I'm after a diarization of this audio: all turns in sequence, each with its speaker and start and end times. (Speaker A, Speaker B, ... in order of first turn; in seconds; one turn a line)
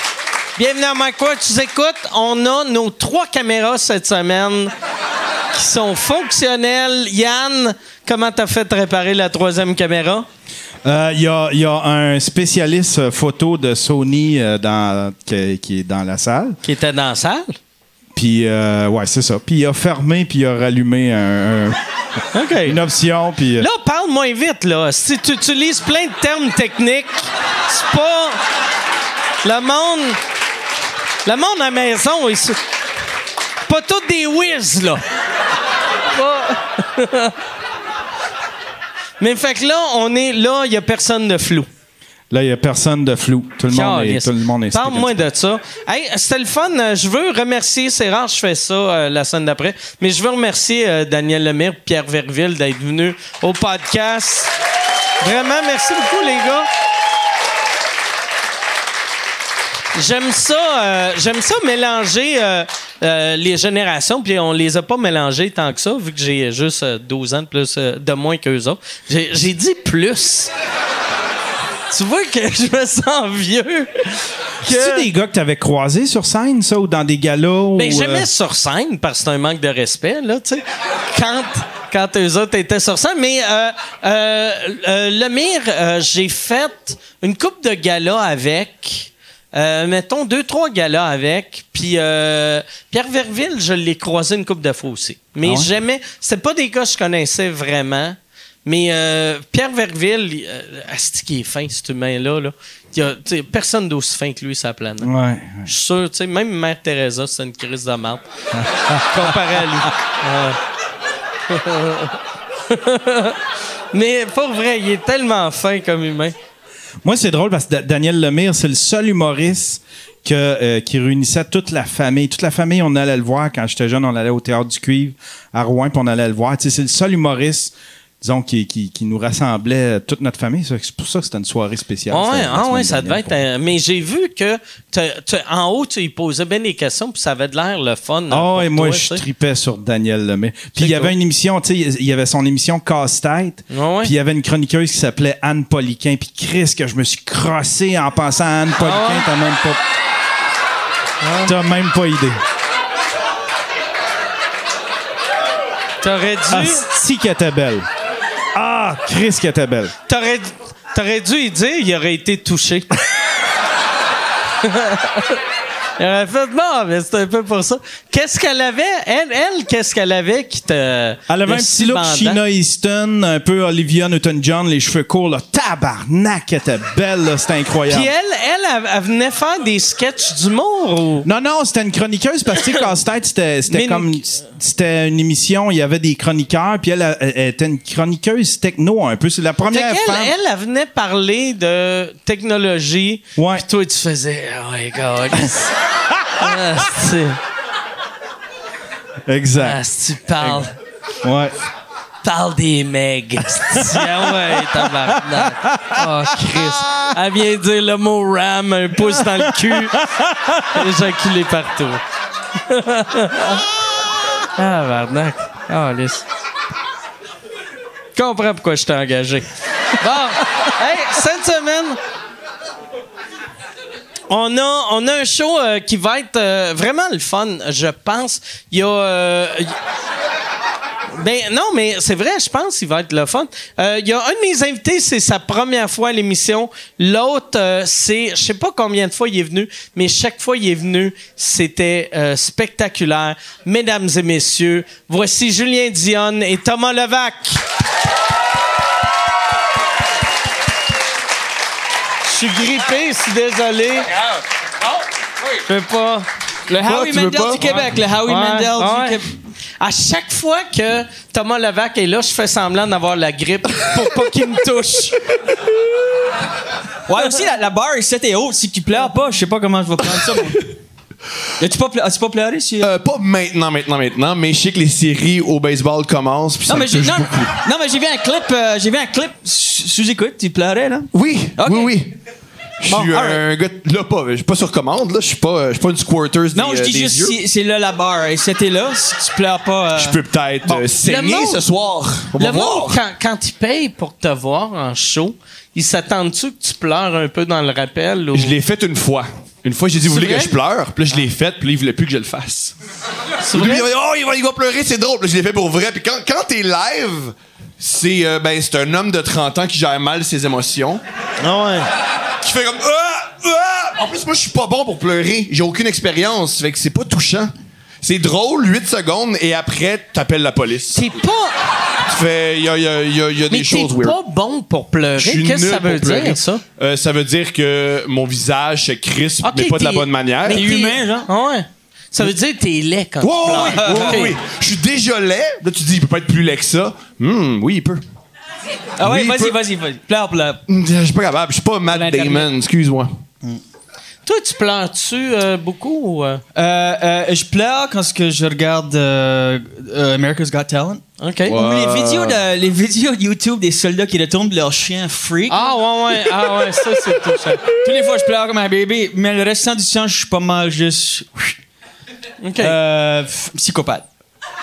Speaker A: 0.6-4.7
Speaker A: 5.5-10.3
Speaker B: 10.8-16.6
Speaker A: 16.6-17.6
Speaker B: 18.1-21.8
Speaker A: 22.3-22.8
Speaker B: 22.6-23.7
Speaker A: 23.6-28.4
Speaker A: 29.4-30.2
Speaker A: 31.2-32.6
Speaker A: 33.6-35.0
Speaker A: 36.1-37.4
Speaker A: 39.2-41.7
Speaker B: 42.3-45.3
Speaker A: 43.7-54.5
Speaker A: 55.2-56.7
Speaker A: 59.9-70.5
Speaker A: 71.9-75.1
Speaker B: 74.6-78.3
Speaker A: 77.8-105.1
Speaker B: 95.4-95.7
Speaker B: 105.0-105.7
Speaker A: 105.7-108.2
Speaker B: 108.5-109.3
Speaker A: 109.1-110.6
Speaker A: 111.5-113.4
Speaker A: 113.9-116.3
Speaker B: 117.0-133.4
Speaker A: 132.1-139.2
Speaker B: 138.3-149.8
Speaker A: 140.8-141.1
Speaker A: 143.7-144.1
Speaker A: 148.8-149.3
Speaker A: 151.2-151.5
Speaker B: 151.4-152.4
Speaker A: 156.0-156.8
Speaker B: 156.5-157.9
Speaker B: 158.5-159.9
Speaker A: 160.1-162.9
Speaker A: 164.6-165.4
Speaker A: 166.0-172.4
Speaker B: 171.3-178.1
Speaker A: 177.9-181.2
Speaker B: 181.2-190.3
Speaker A: 183.7-184.2
Speaker A: 189.7-195.7
Speaker B: 193.4-193.6
Speaker A: 196.3-197.4
Speaker B: 199.3-199.8
Speaker A: 199.6-200.7
Speaker B: 200.4-200.7
Speaker B: 201.2-201.5
Speaker A: 202.2-210.1
Speaker B: 203.7-207.1
Speaker B: 209.2-210.8
Speaker A: 210.7-212.0
Speaker A: 212.6-213.6
Speaker A: 214.5-216.2
Speaker A: 218.2-219.5
Speaker A: 220.0-222.0
Speaker A: 224.3-229.7
Speaker A: 231.1-247.6
Speaker A: 252.2-254.1
Speaker A: 255.7-256.3
Speaker C: 256.7-259.3
Speaker D: 256.8-257.8
Speaker A: 257.6-259.2
Speaker A: 259.8-265.3
Speaker C: 267.1-270.7
Speaker C: 271.6-272.9
Speaker D: 272.8-277.6
Speaker C: 276.7-281.9
Speaker D: 281.1-282.1
Speaker D: 282.8-287.4
Speaker C: 282.9-283.4
Speaker C: 286.5-290.9
Speaker D: 289.9-293.0
Speaker A: 291.0-291.6
Speaker A: 292.4-298.6
Speaker D: 298.3-302.7
Speaker A: 300.1-300.5
Speaker A: 303.4-303.9
Speaker D: 303.5-311.0
Speaker A: 311.4-311.8
Speaker D: 312.4-321.1
Speaker A: 320.9-321.5
Speaker D: 322.0-324.2
Speaker A: 323.5-326.6
Speaker D: 325.1-330.6
Speaker A: 329.4-334.4
Speaker C: 330.4-331.3
Speaker D: 333.2-338.0
Speaker C: 333.5-334.2
Speaker C: 339.0-340.6
Speaker D: 339.0-339.6
Speaker D: 340.7-343.2
Speaker C: 341.9-342.5
Speaker A: 344.2-346.4
Speaker C: 346.5-356.7
Speaker A: 351.2-351.5
Speaker D: 351.4-352.4
Speaker A: 355.5-357.7
Speaker C: 357.7-361.6
Speaker A: 362.4-362.8
Speaker C: 362.6-364.1